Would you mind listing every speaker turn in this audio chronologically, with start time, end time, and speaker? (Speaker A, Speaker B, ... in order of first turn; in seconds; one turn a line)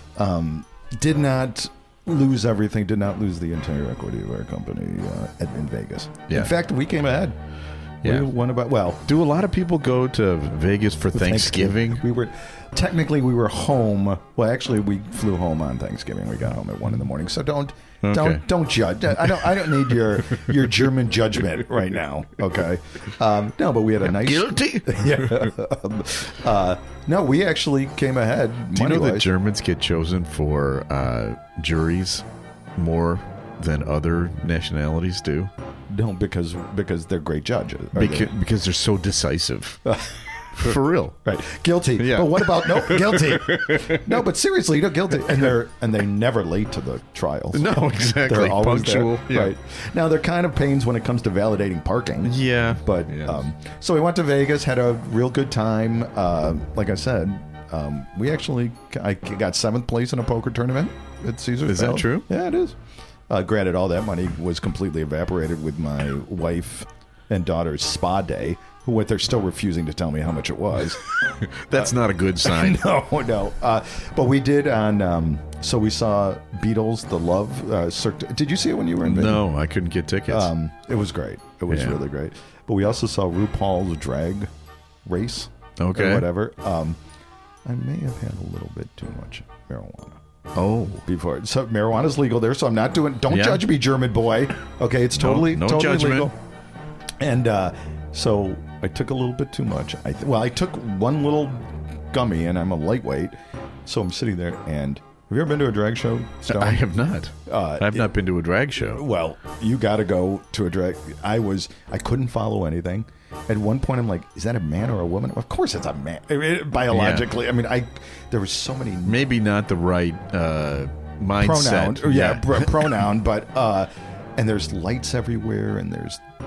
Speaker A: 0.1-7.4
Speaker A: 8.0-9.0
Speaker B: 9.1-12.0
Speaker A: 11.1-29.3
Speaker B: 18.0-18.4
Speaker B: 24.0-25.5
Speaker B: 28.7-32.2
Speaker B: 32.8-35.5
Speaker A: 35.9-38.3
Speaker B: 37.9-39.9
Speaker A: 39.8-40.7
Speaker B: 40.5-41.2
Speaker A: 41.2-62.8
Speaker B: 42.0-44.1
Speaker B: 47.5-49.5
Speaker B: 52.2-53.4
Speaker B: 61.6-62.3
Speaker A: 63.3-71.0
Speaker B: 71.2-72.8
Speaker A: 71.7-79.5
Speaker B: 79.0-80.5
Speaker A: 80.3-84.5
Speaker B: 81.7-82.0
Speaker A: 85.0-87.0
Speaker B: 85.8-86.2
Speaker A: 87.6-90.2
Speaker B: 90.5-91.0
Speaker A: 91.0-96.3
Speaker B: 93.3-93.6
Speaker B: 95.2-96.3
Speaker A: 97.2-106.8
Speaker B: 106.5-109.0
Speaker A: 107.5-108.1
Speaker A: 108.7-119.2
Speaker B: 116.9-117.3
Speaker B: 119.0-122.8
Speaker A: 121.4-126.2